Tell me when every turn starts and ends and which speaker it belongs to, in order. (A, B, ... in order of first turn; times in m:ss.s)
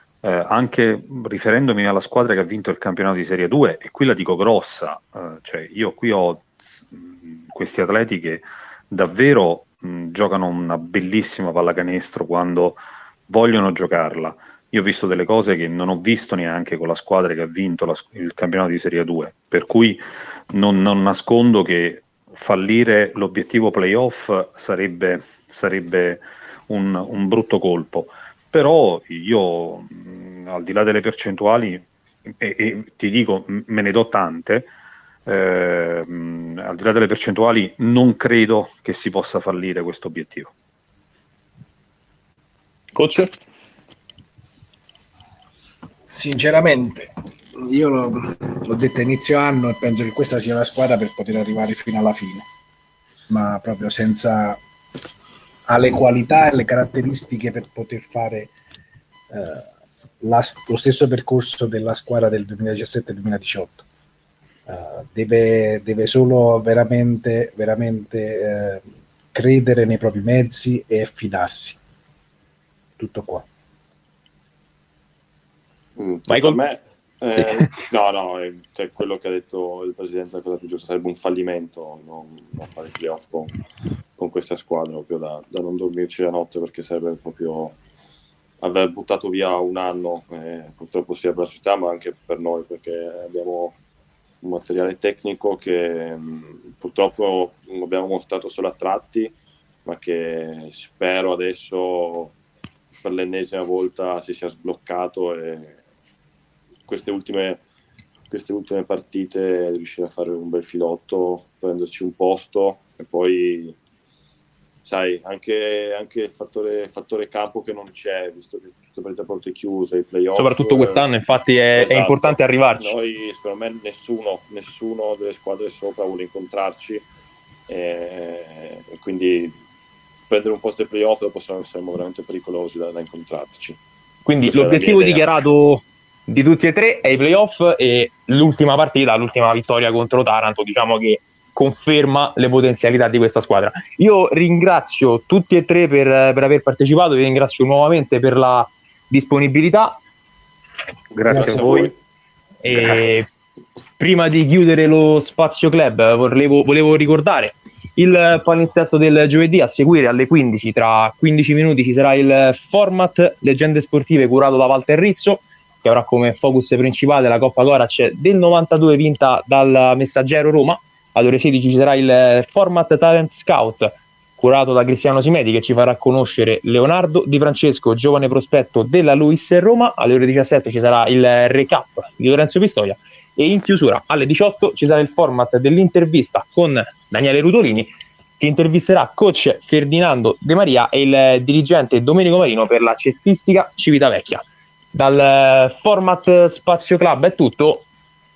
0:00.2-0:34.7 A
0:35.2-0:40.5 A
0:42.9-0:43.3 B
0:46.1-0:52.4 C
0:53.3-0:54.6 C
0:55.7-0:58.5 C
0:59.3-0:59.7 C
1:00.2-1:03.8 C
1:04.6-1:11.8 C
1:13.0-1:13.4 C
1:16.0-1:23.5 D
1:16.3-1:16.6 B
1:24.2-1:27.8 D
1:28.6-1:33.8 D
1:34.4-1:42.3 D
1:43.0-1:45.8 D
1:46.9-1:47.6 D
1:48.3-1:53.8 D
1:54.8-2:01.0 D
2:00.3-2:02.9 B
2:01.8-2:07.0 D
2:07.7-2:09.6 D
2:10.3-2:13.8 D
2:14.2-2:30.0 B
2:14.5-2:15.2 D
2:31.1-2:31.9 A
2:31.2-2:31.9 D
2:32.6-2:33.3 B
2:32.7-2:33.2 A
2:34.0-3:17.8 B